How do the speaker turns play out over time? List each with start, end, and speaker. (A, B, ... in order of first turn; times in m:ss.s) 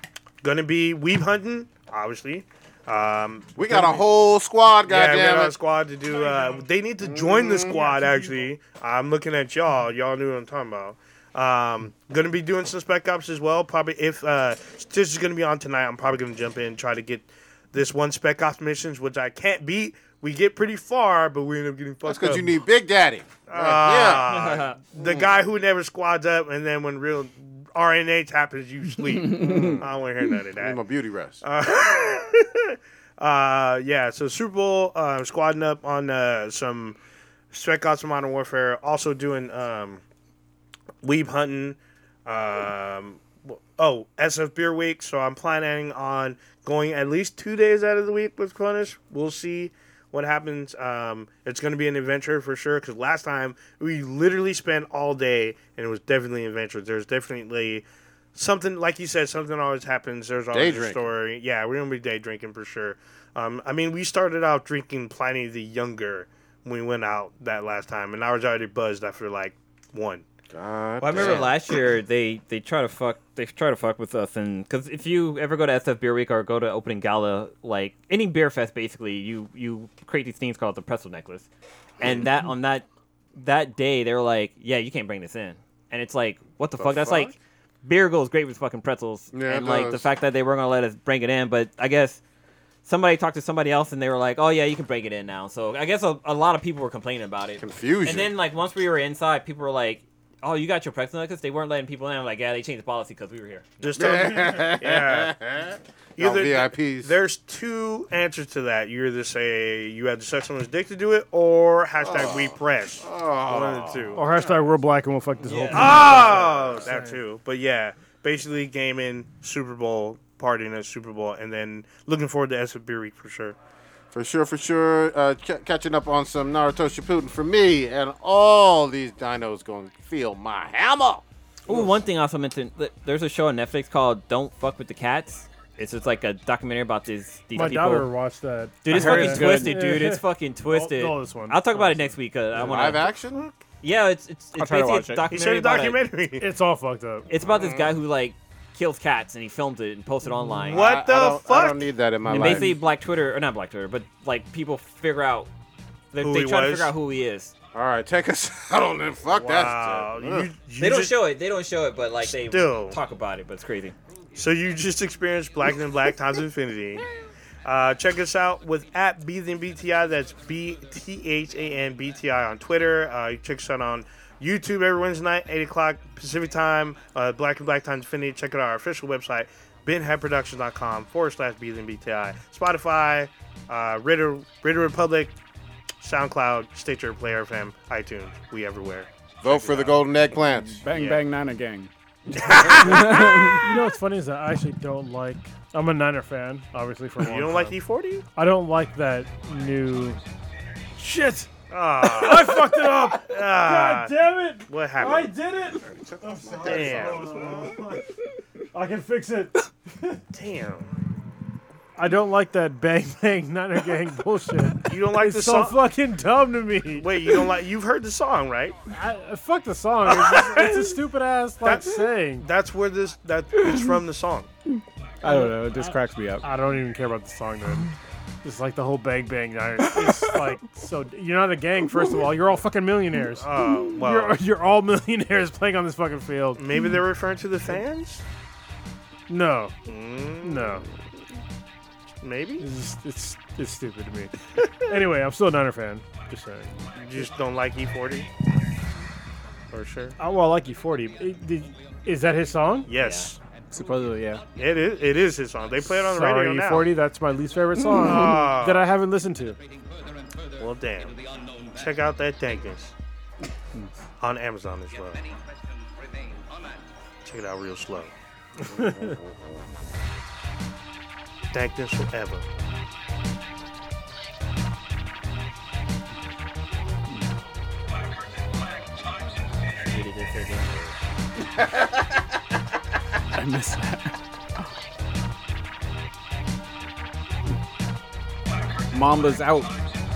0:00.4-0:04.0 A
0:03.6-0:05.6 B
0:04.8-0:22.6 A
0:07.0-0:07.8 B
0:07.7-0:08.4 C
0:22.0-0:25.4 B
0:23.4-0:30.8 A
0:24.3-0:24.8 D
0:29.3-0:29.9 B
0:30.5-0:31.4 B
0:31.4-0:37.0 A
0:37.5-0:40.0 A
0:41.0-1:10.2 A
1:00.5-1:01.1 B
1:10.5-1:11.6 B
1:11.0-1:21.4 D
1:22.0-1:22.3 B
1:22.0-1:32.2 D
1:26.8-1:27.3 B
1:29.3-1:30.0 B
1:32.8-1:43.8 D
1:37.6-1:38.3 B
1:43.8-1:45.3 A
1:43.9-1:47.1 B
1:46.2-1:54.2 A
1:52.0-1:54.2 B
1:54.1-1:57.2 C
1:55.5-1:56.2 D
1:55.7-2:03.6 A
1:56.1-1:56.9 B
2:04.1-2:11.8 B
2:11.7-2:18.1 D
2:17.5-2:22.1 C
2:18.8-2:23.1 D
2:18.9-2:19.8 E
2:22.6-2:23.4 B
2:23.8-2:26.0 D
2:24.6-2:25.4 E
2:25.3-2:26.4 A
2:26.4-2:27.2 C
2:27.3-2:30.8 D
2:27.4-2:27.9 B
2:30.7-2:32.8 B
2:30.7-2:31.9 A
2:32.3-2:35.5 D
2:36.1-2:37.5 D
2:36.2-2:36.9 A
2:37.7-2:40.5 B
2:39.3-2:41.2 A
2:40.8-2:44.0 D
2:42.2-2:43.0 A
2:44.4-2:47.1 A
2:47.6-3:05.4 A
3:06.0-3:10.2 A
3:09.4-3:10.8 B
3:10.4-3:13.8 E
3:10.9-3:11.2 A
3:12.4-3:13.1 A
3:12.8-3:17.8 C
3:17.2-3:18.2 A
3:18.4-3:20.2 C
3:21.0-3:28.1 C
3:21.7-3:25.3 A
3:26.6-3:27.6 A
3:28.7-3:30.2 C
3:30.3-3:30.9 A
3:32.0-3:37.3 C
3:34.8-3:35.8 A
3:37.0-3:38.8 A
3:38.9-3:42.5 C
3:40.1-3:41.0 A
3:41.6-3:44.5 A
3:45.2-3:46.5 E
3:45.2-3:56.6 C
3:49.8-3:50.6 E
3:53.3-3:54.4 A
3:56.6-3:58.2 A
3:59.3-3:59.8 C
3:59.9-4:00.8 A
4:00.4-4:00.8 C
4:02.2-4:02.6 A
4:02.6-4:06.8 C
4:06.9-4:08.3 A
4:09.7-4:10.2 A
4:10.2-4:12.9 C
4:12.9-4:13.4 A
4:13.0-4:13.3 D
4:13.7-4:14.4 E
4:14.5-4:16.9 A
4:15.8-4:19.6 C
4:17.9-4:18.8 A
4:20.6-4:22.9 A
4:24.2-4:25.3 A
4:27.2-4:28.1 A
4:28.7-4:29.2 C
4:28.7-4:29.3 B
4:31.5-4:32.4 A
4:39.8-4:41.0 D
4:43.3-4:44.7 E
4:48.9-4:49.8 E